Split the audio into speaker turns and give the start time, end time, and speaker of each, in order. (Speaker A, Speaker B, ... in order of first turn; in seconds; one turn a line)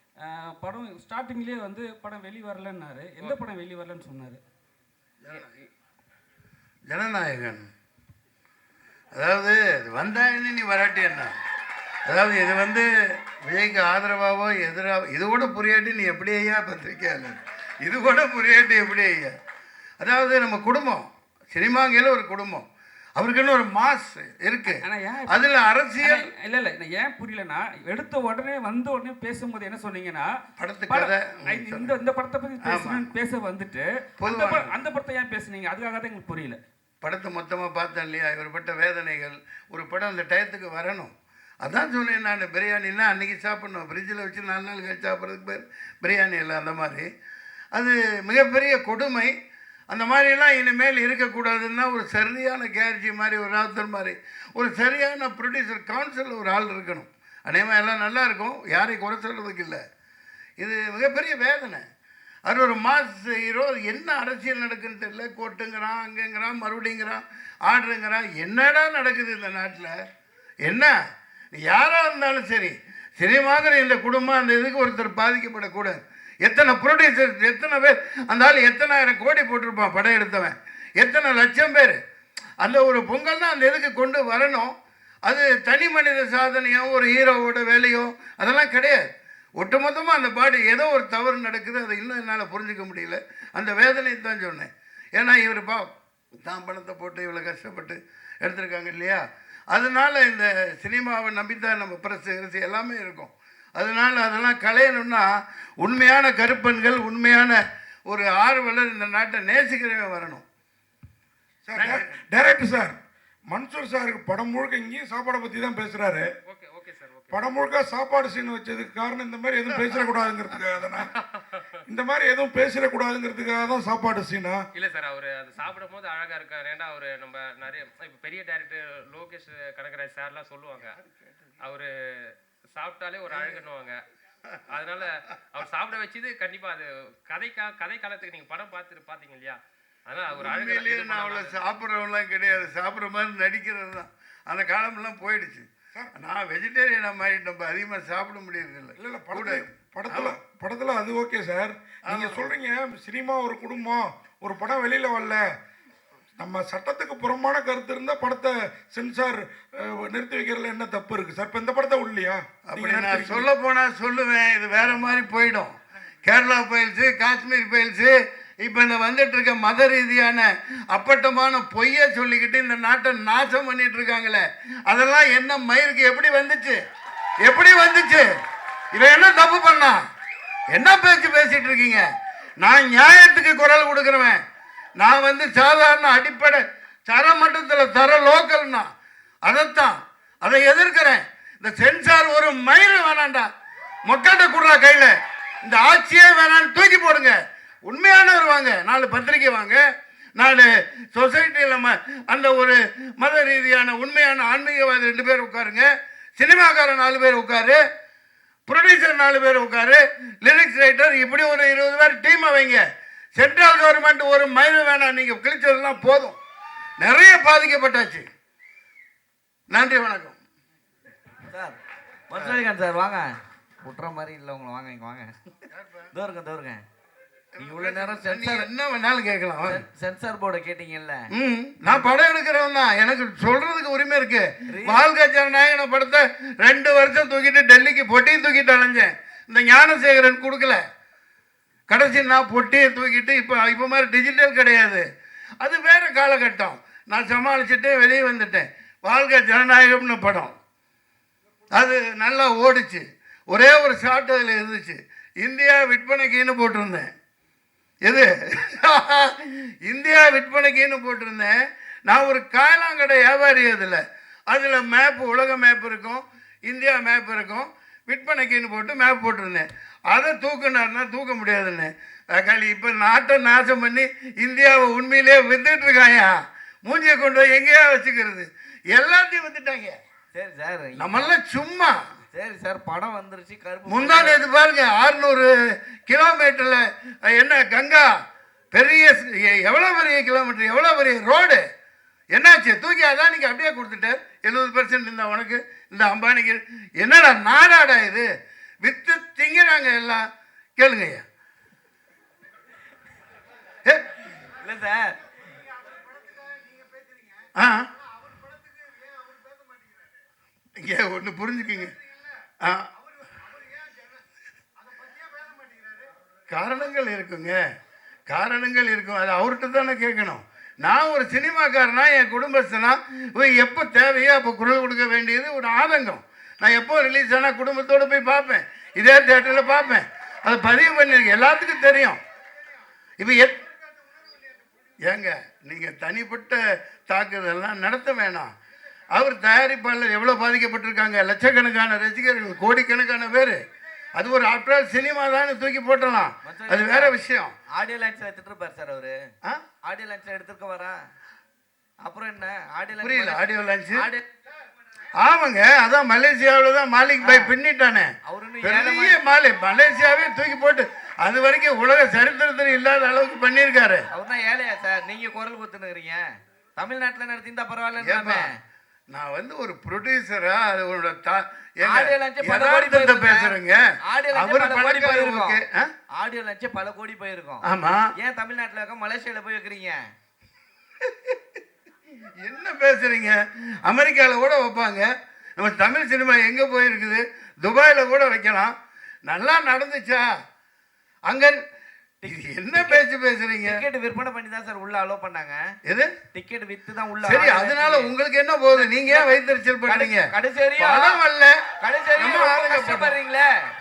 Speaker A: 0.2-4.4
Speaker B: 5.2-5.5
Speaker C: 6.9-7.6
Speaker C: 9.1-11.3
Speaker C: 12.1-19.3
Speaker C: 20.0-22.6
Speaker C: 23.2-26.3
Speaker A: 24.7-25.4
Speaker A: 26.0-30.3
Speaker C: 30.6-31.9
Speaker A: 30.9-36.6
Speaker C: 32.6-33.1
Speaker C: 34.2-34.8
Speaker C: 37.0-41.1
Speaker C: 41.6-47.0
Speaker C: 47.7-49.3
Speaker C: 49.9-59.8
Speaker C: 60.6-61.8
Speaker C: 62.5-69.9
Speaker C: 70.6-70.9
Speaker C: 71.5-82.0
Speaker C: 82.6-84.7
Speaker C: 85.2-89.0
Speaker C: 89.6-95.9
Speaker C: 96.4-105.3
Speaker C: 105.8-110.4
Speaker D: 111.6-113.0
Speaker C: 111.7-112.2
Speaker D: 113.5-116.3
Speaker B: 116.5-117.5
Speaker D: 117.3-121.0
Speaker C: 119.7-120.1
Speaker B: 120.9-121.7
Speaker D: 121.9-124.6
Speaker B: 124.7-131.0
Speaker B: 131.6-131.9
Speaker B: 132.7-134.0
Speaker B: 134.7-141.6
Speaker C: 140.3-150.4
Speaker D: 149.0-155.4
Speaker C: 152.1-152.5
Speaker D: 156.4-163.5
Speaker C: 162.6-176.8
Speaker C: 177.4-178.3
Speaker C: 178.9-180.0
Speaker C: 180.7-182.0
Speaker C: 182.6-184.4
Speaker C: 185.0-188.9
Speaker C: 189.4-193.5
Speaker C: 194.1-199.8
Speaker C: 200.4-207.8
Speaker C: 208.7-212.8
Speaker C: 213.3-216.4
Speaker C: 217.0-218.2
Speaker C: 219.7-220.4
Speaker E: 221.5-221.8
Speaker E: 222.3-223.2
Speaker E: 223.8-225.3
Speaker C: 225.7-226.1
Speaker E: 226.1-226.8
Speaker C: 227.5-229.8
Speaker E: 227.6-228.7
Speaker E: 229.7-231.2
Speaker C: 231.3-240.8
Speaker E: 231.9-232.1
Speaker E: 234.7-235.1
Speaker C: 241.9-245.0
Speaker C: 245.6-250.5
Speaker C: 251.7-257.1
Speaker C: 258.0-261.5
Speaker C: 262.1-279.9
Speaker E: 280.3-281.3
Speaker C: 281.0-282.0
Speaker E: 282.3-284.4
Speaker C: 283.9-285.5
Speaker C: 286.1-288.1
Speaker C: 288.7-291.6
Speaker C: 292.3-298.3
Speaker C: 298.8-300.2
Speaker C: 300.8-301.2
Speaker C: 303.8-304.1
Speaker E: 304.6-305.2
Speaker C: 307.5-307.9
Speaker C: 310.8-311.9
Speaker C: 312.6-312.9
Speaker C: 316.5-317.6
Speaker C: 318.3-332.2
Speaker C: 333.2-333.6
Speaker C: 335.0-338.5
Speaker C: 339.1-343.6
Speaker C: 344.1-347.5
Speaker E: 346.4-347.2
Speaker E: 347.7-349.1
Speaker E: 349.8-350.9
Speaker E: 352.0-354.2
Speaker C: 353.0-354.1
Speaker C: 355.2-358.1
Speaker E: 357.2-357.5
Speaker E: 358.2-359.2
Speaker C: 358.6-364.1
Speaker E: 364.1-366.2
Speaker E: 366.8-368.5
Speaker C: 368.0-368.5
Speaker C: 369.1-375.9
Speaker E: 371.9-373.5
Speaker E: 374.0-375.6
Speaker E: 376.1-377.6
Speaker C: 377.6-378.1
Speaker E: 378.2-380.0
Speaker C: 382.4-388.7
Speaker C: 389.2-390.2
Speaker C: 391.3-391.6
Speaker E: 392.2-393.0
Speaker C: 392.3-393.8
Speaker E: 393.6-395.6
Speaker C: 395.9-396.1
Speaker E: 396.3-398.1
Speaker C: 397.2-400.3
Speaker E: 398.7-399.3
Speaker E: 399.9-401.2
Speaker C: 400.8-401.6
Speaker E: 401.8-403.4
Speaker C: 402.2-403.2